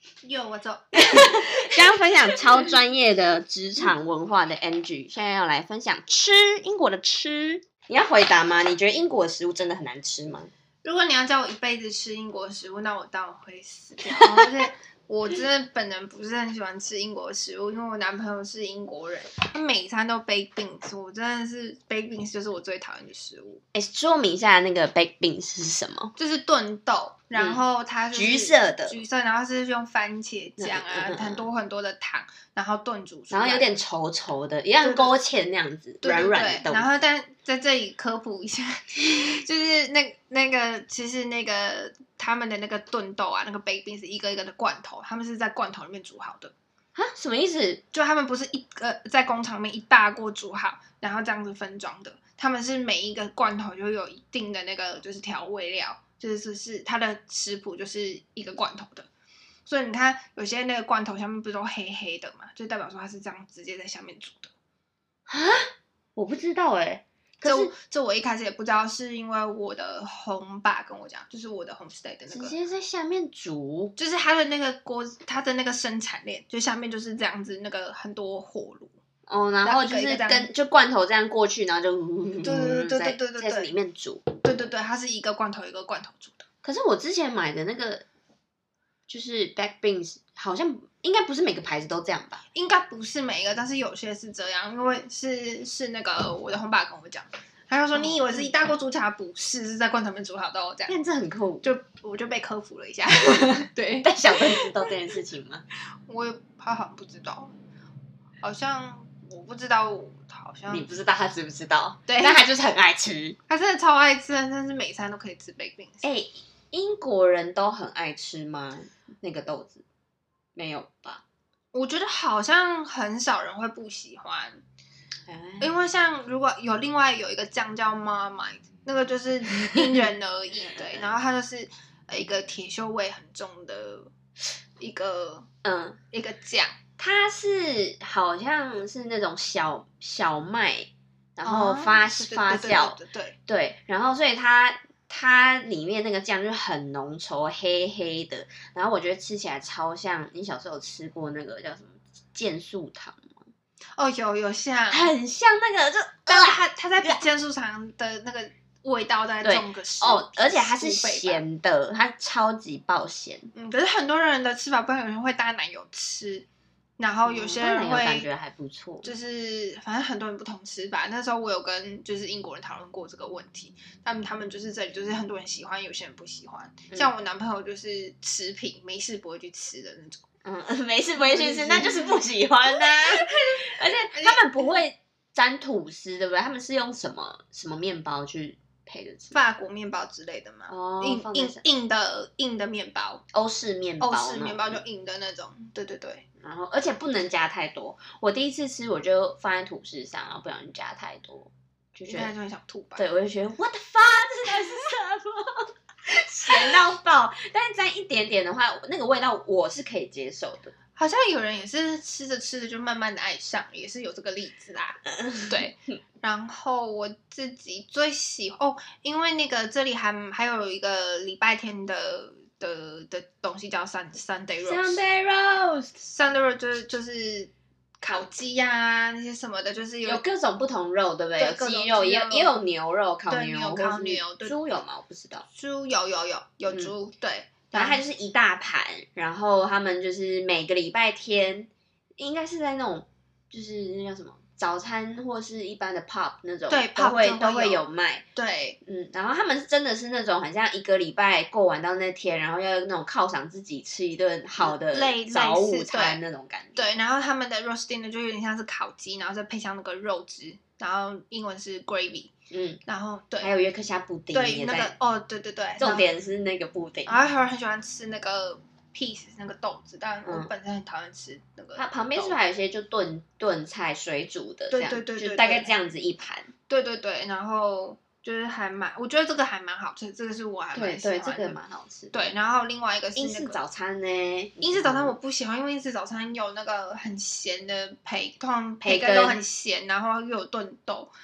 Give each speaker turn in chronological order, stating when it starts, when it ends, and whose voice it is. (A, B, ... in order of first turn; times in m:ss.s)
0:00.2-0:02.7 A
0:01.0-0:10.5 B
0:10.8-0:23.6 A
0:23.7-0:26.1 B
0:26.2-0:33.7 A
0:27.3-0:29.0 B
0:30.6-0:31.4 B
0:33.3-0:36.9 B
0:34.8-0:35.2 A
0:36.0-0:46.5 A
0:47.0-0:47.8 B
0:47.9-0:59.1 A
0:59.7-1:04.5 A
1:05.3-1:07.7 B
1:07.4-1:12.5 A
1:12.3-1:13.9 B
1:14.0-1:18.9 A
1:19.3-1:24.3 B
1:19.6-1:20.5 A
1:22.4-1:23.7 A
1:24.4-1:26.5 A
1:26.6-1:28.0 B
1:29.1-1:32.4 B
1:32.5-1:41.0 A
1:37.9-1:38.5 B
1:40.9-1:41.7 B
1:41.6-1:44.9 A
1:44.0-1:45.6 B
1:46.1-1:47.5 A
1:48.4-1:50.9 A
1:50.7-1:53.4 B
1:52.1-1:52.4 A
1:53.5-1:56.0 A
1:56.0-1:59.8 B
2:00.5-2:01.2 B
2:01.7-2:04.6 A
2:05.3-2:05.7 B
2:05.6-2:14.1 A
2:10.6-2:11.1 B
2:14.8-2:15.5 A
2:15.6-2:16.0 B
2:16.1-2:16.8 A
2:17.0-2:33.4 B
2:21.4-2:23.4 A
2:34.0-2:35.1 A
2:34.9-2:37.2 B
2:36.3-2:41.4 A
2:39.4-2:43.5 B
2:43.5-2:46.5 A
2:47.0-2:48.3 A
2:47.2-2:49.1 B
2:49.0-3:00.2 A
3:00.4-3:09.4 B
3:01.2-3:04.7 A
3:09.3-3:13.2 A
3:10.7-3:11.6 B
3:13.3-3:14.8 B
3:14.0-3:16.2 A
3:16.4-3:22.3 B
3:22.1-3:23.0 A
3:23.0-3:30.8 B
3:26.5-3:26.8 A
3:31.0-3:45.0 A
3:35.2-3:35.5 B
3:44.6-3:46.0 B
3:46.0-3:50.2 A
3:50.0-3:55.5 B
3:51.4-3:52.5 A
3:53.3-3:54.5 A
3:55.5-3:58.0 A
3:57.7-4:08.2 B
4:06.7-4:07.8 A
4:08.4-4:08.8 A
4:08.8-4:16.9 B
4:14.6-4:16.2 A
4:16.8-4:22.3 A
4:22.5-4:22.8 B
4:22.9-4:23.5 A
4:23.4-4:24.9 B
4:24.3-4:26.1 A
4:25.8-4:27.2 B
4:27.1-4:32.4 A
4:30.2-4:30.5 B
4:31.8-4:36.5 B
4:34.7-4:35.7 A
4:36.7-4:41.6 A
4:40.7-4:42.2 B
4:42.1-4:43.6 A
4:43.2-4:45.1 B
4:44.6-4:51.1 A
4:48.8-4:49.4 B